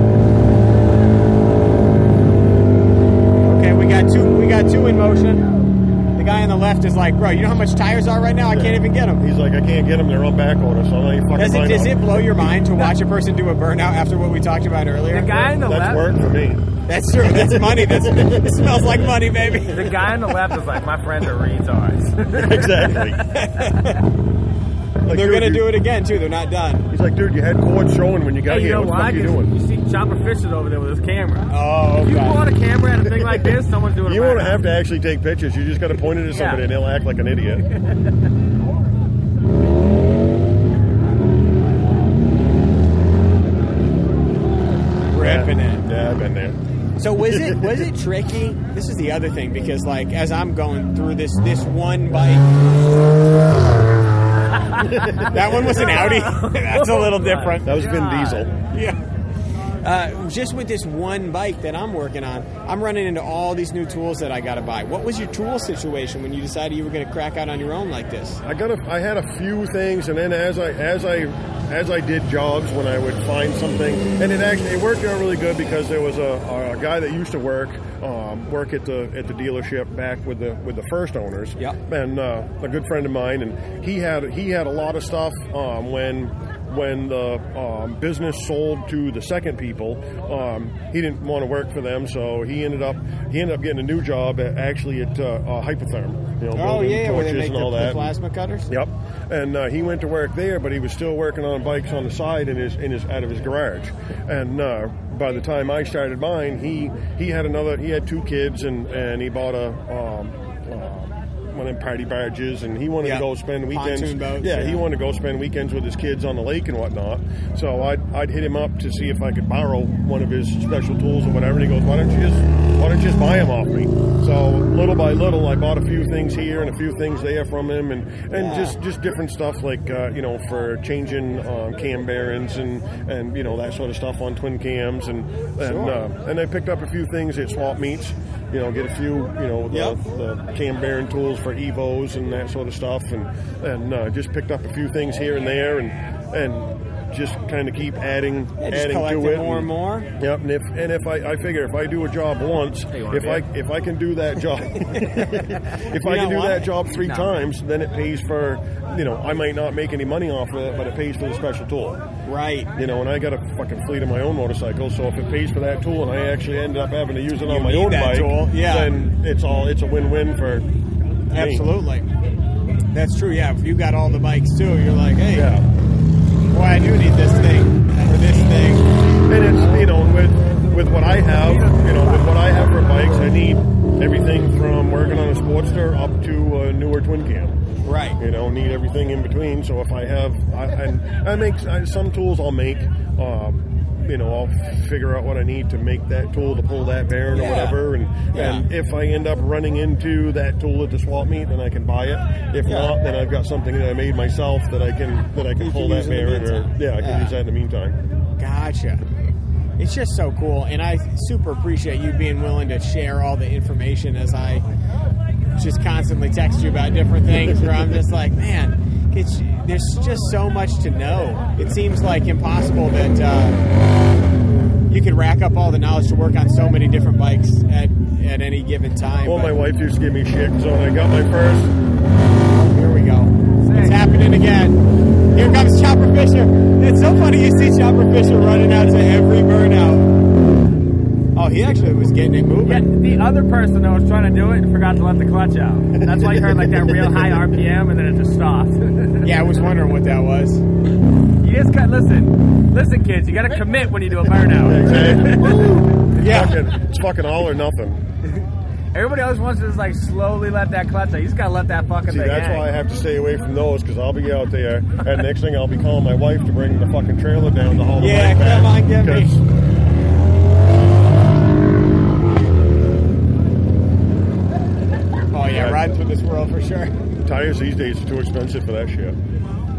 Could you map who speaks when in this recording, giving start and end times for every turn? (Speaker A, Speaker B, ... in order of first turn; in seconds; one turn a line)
Speaker A: 3.4-5.5
Speaker A: 6.2-9.2
Speaker B: 8.5-12.6
Speaker A: 11.3-15.4
Speaker C: 15.1-16.1
Speaker B: 15.4-16.7
Speaker A: 16.9-20.0
Speaker B: 17.2-18.6
Speaker C: 19.7-23.9
Speaker B: 22.4-23.2
Speaker A: 23.3-24.0
Speaker B: 25.1-25.9
Speaker A: 25.1-26.9
Speaker B: 26.9-29.6
Speaker C: 28.5-34.7
Speaker A: 31.5-32.4
Speaker B: 34.0-37.6
Speaker C: 36.3-36.6
Speaker C: 37.7-38.1
Speaker A: 45.1-45.9
Speaker B: 45.1-46.6
Speaker A: 47.0-52.5
Speaker B: 47.2-47.8
Speaker C: 54.7-55.0
Speaker B: 55.0-55.9
Speaker A: 55.3-59.0
Speaker C: 55.7-57.6
Speaker B: 57.6-58.5
Speaker A: 59.8-68.4
Speaker B: 68.4-98.1
Speaker A: 96.5-98.7
Speaker B: 98.7-162.0
Speaker A: 113.0-114.8
Speaker A: 128.3-128.8
Speaker A: 135.6-136.0
Speaker A: 139.7-140.0
Speaker A: 148.6-150.1
Speaker C: 152.9-153.4
Speaker A: 155.9-156.7
Speaker A: 162.2-162.7
Speaker B: 162.8-170.7
Speaker A: 167.4-168.9
Speaker B: 171.3-171.7
Speaker A: 171.3-172.1
Speaker A: 172.9-175.5
Speaker B: 175.3-175.7
Speaker A: 176.5-178.9
Speaker B: 179.3-187.6
Speaker C: 181.4-182.4
Speaker A: 187.8-188.2
Speaker B: 188.2-208.0
Speaker A: 197.3-198.7
Speaker A: 202.7-202.9
Speaker A: 205.6-207.4
Speaker A: 208.4-209.1
Speaker A: 209.8-214.7
Speaker A: 215.6-223.6
Speaker A: 224.9-229.6
Speaker B: 229.2-231.7
Speaker A: 232.5-234.8
Speaker C: 233.6-234.0
Speaker A: 235.3-240.1
Speaker A: 241.3-242.9
Speaker C: 242.7-249.3
Speaker B: 246.2-246.5
Speaker A: 249.2-250.6
Speaker C: 251.4-256.2
Speaker B: 254.6-258.0
Speaker A: 256.2-256.6
Speaker C: 258.3-262.7
Speaker B: 262.1-269.4
Speaker A: 267.9-269.3
Speaker A: 275.3-276.9
Speaker B: 275.5-275.9
Speaker B: 277.2-279.2